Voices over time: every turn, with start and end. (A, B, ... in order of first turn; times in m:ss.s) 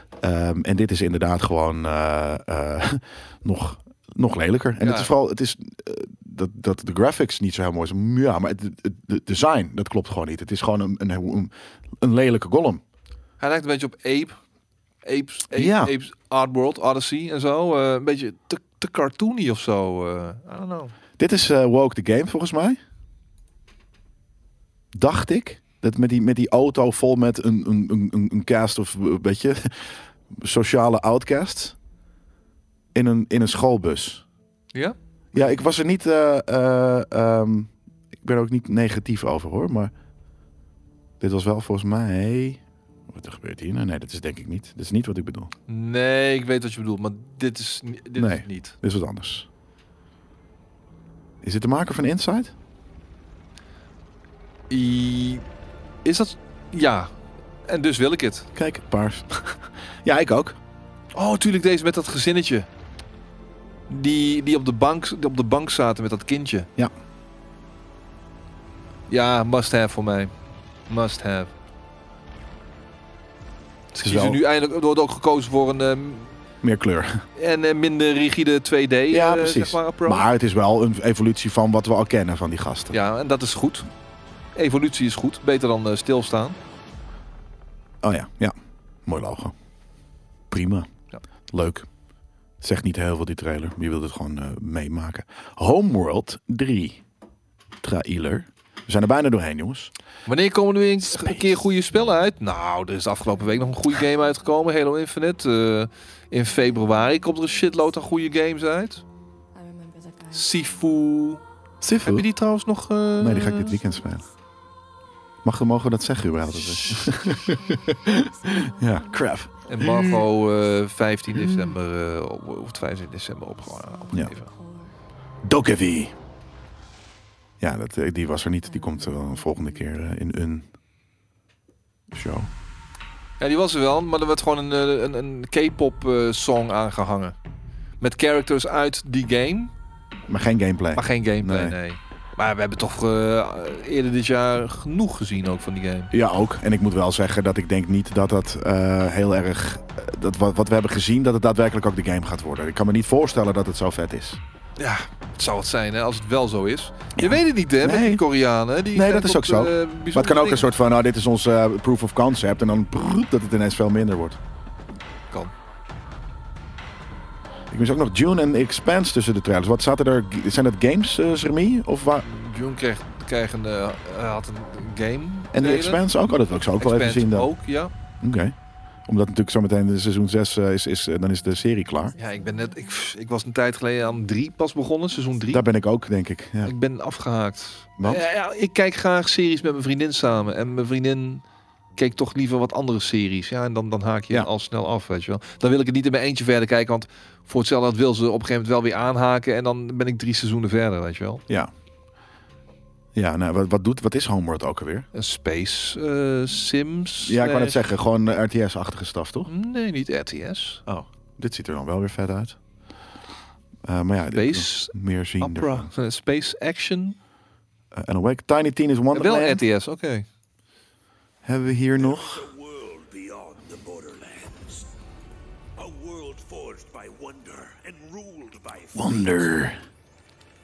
0:00.2-0:12.8 A
0:04.8-0:05.1 B
0:13.4-0:14.4 B
0:15.0-0:20.9 B
0:15.5-0:15.9 A
0:21.2-0:22.8 A
0:24.9-0:31.8 A
0:32.9-0:34.2 A
0:35.3-0:39.9 A
0:41.2-0:45.5 A
0:45.7-0:48.8 B
0:48.1-0:49.5 A
0:51.4-0:52.5 A
0:54.7-0:55.4 B
0:56.0-0:57.1 B
0:57.6-0:58.5 B
0:58.5-1:00.6 A
1:01.1-1:02.7 B
1:03.9-1:06.7 B
1:09.1-1:10.3 B
1:10.9-1:11.5 B
1:13.9-1:16.4 B
1:14.0-1:14.4 A
1:16.6-1:17.2 A
1:17.4-1:20.3 B
1:19.1-1:22.9 A
1:22.9-1:23.9 B
1:24.5-1:26.6 B
1:28.0-1:29.5 A
1:30.5-1:30.9 A
1:31.5-1:31.9 A
1:32.6-1:37.0 A
1:37.8-1:39.9 A
1:40.2-1:49.0 B
1:49.5-1:50.5 C
1:50.3-1:51.4 B
1:51.8-1:52.3 A
1:52.0-1:53.8 B
1:53.2-1:54.3 A
1:55.4-2:00.2 A
1:56.4-1:59.4 C
1:56.9-1:57.3 B
1:59.6-2:04.5 B
2:01.3-2:01.7 A
2:03.6-2:04.9 C
2:05.4-2:06.1 A
2:07.6-2:10.7 A
2:08.7-2:09.7 C
2:12.1-2:12.5 A
2:13.4-2:17.4 B
2:18.0-2:19.7 B
2:20.3-2:21.8 A
2:20.9-2:26.1 B
2:26.1-2:34.4 A
2:34.8-2:40.7 B
2:37.2-2:38.2 A
2:38.9-2:44.4 A
2:47.7-2:52.2 A
2:52.2-2:56.0 B
2:55.5-2:57.5 A
2:56.8-2:57.9 B
2:58.2-3:02.1 A
3:02.2-3:05.7 B
3:05.5-3:06.7 A
3:06.6-3:11.4 B
3:08.0-3:08.2 A
3:12.0-3:21.4 B
3:23.1-3:25.1 A
3:25.1-3:27.8 B
3:27.2-3:29.5 A
3:29.4-3:30.8 B
3:30.8-3:32.6 A
3:33.8-3:35.9 A
3:34.3-3:37.2 B
3:37.9-3:39.6 A
3:39.1-3:40.2 B
3:41.4-3:42.5 A
3:42.0-3:44.9 D
3:45.8-3:49.7 D
3:48.9-3:49.8 A